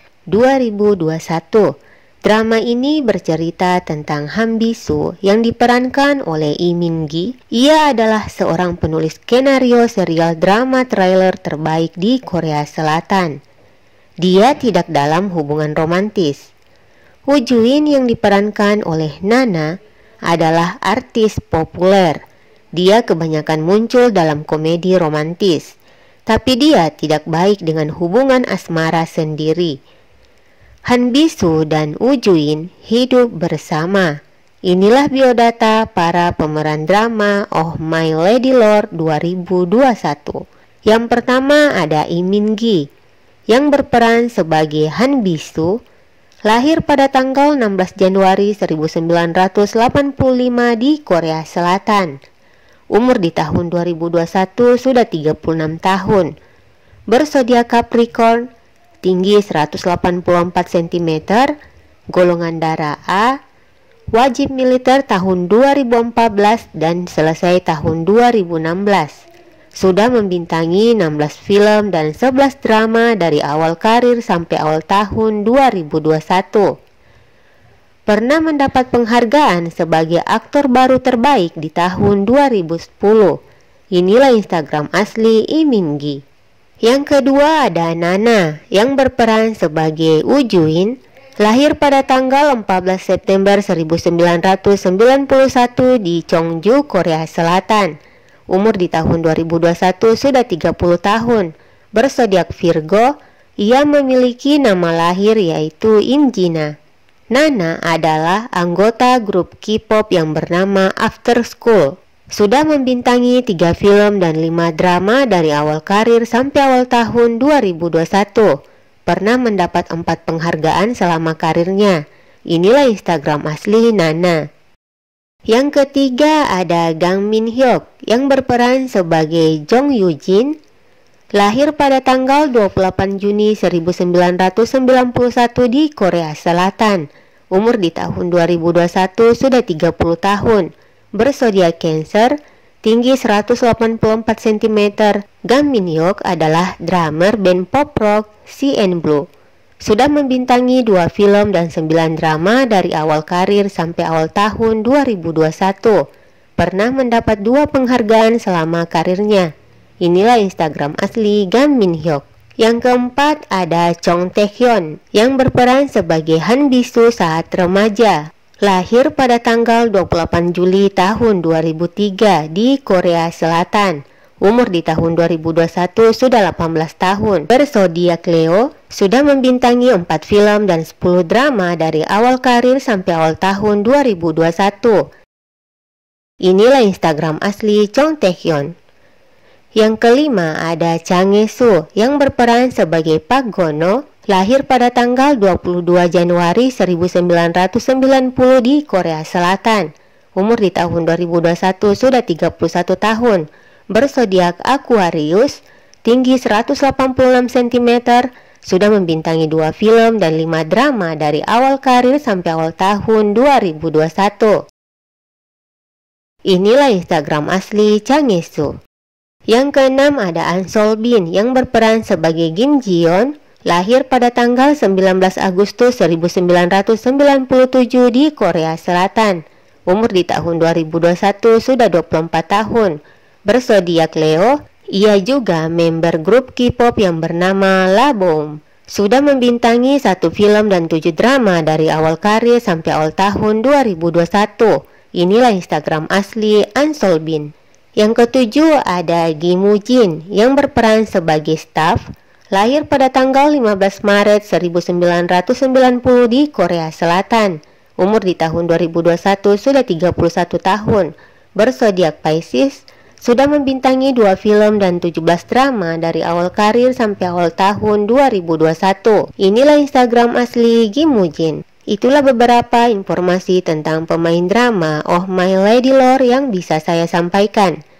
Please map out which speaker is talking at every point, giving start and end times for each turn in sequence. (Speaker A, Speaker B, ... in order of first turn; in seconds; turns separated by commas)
Speaker A: 0.3-1.7, Speaker A: 2.2-13.3, Speaker A: 14.2-16.5, Speaker A: 17.3-19.7, Speaker A: 20.3-22.2, Speaker A: 22.8-25.7, Speaker A: 26.3-29.8, Speaker A: 30.9-34.1, Speaker A: 34.7-42.8, Speaker A: 43.5-45.7, Speaker A: 46.5-52.1, Speaker A: 53.0-56.3, Speaker A: 57.1-58.4, Speaker A: 59.0-61.5, Speaker A: 62.1-63.3, Speaker A: 64.1-69.2, Speaker A: 69.8-76.7, Speaker A: 78.1-83.4, Speaker A: 84.0-86.2, Speaker A: 86.8-97.9, Speaker A: 98.5-103.1, Speaker A: 103.6-106.7, Speaker A: 107.3-118.5, Speaker A: 119.1-122.0, Speaker A: 122.5-124.4, Speaker A: 125.5-130.5, Speaker A: 131.4-137.0, Speaker A: 137.6-142.3, Speaker A: 142.8-149.2, Speaker A: 149.8-156.0, Speaker A: 156.6-159.5, Speaker A: 160.1-185.0, Speaker A: 186.5-188.7, Speaker A: 189.8-214.6, Speaker A: 216.5-218.7, Speaker A: 219.5-233.0, Speaker A: 233.5-252.0, Speaker A: 252.6-277.8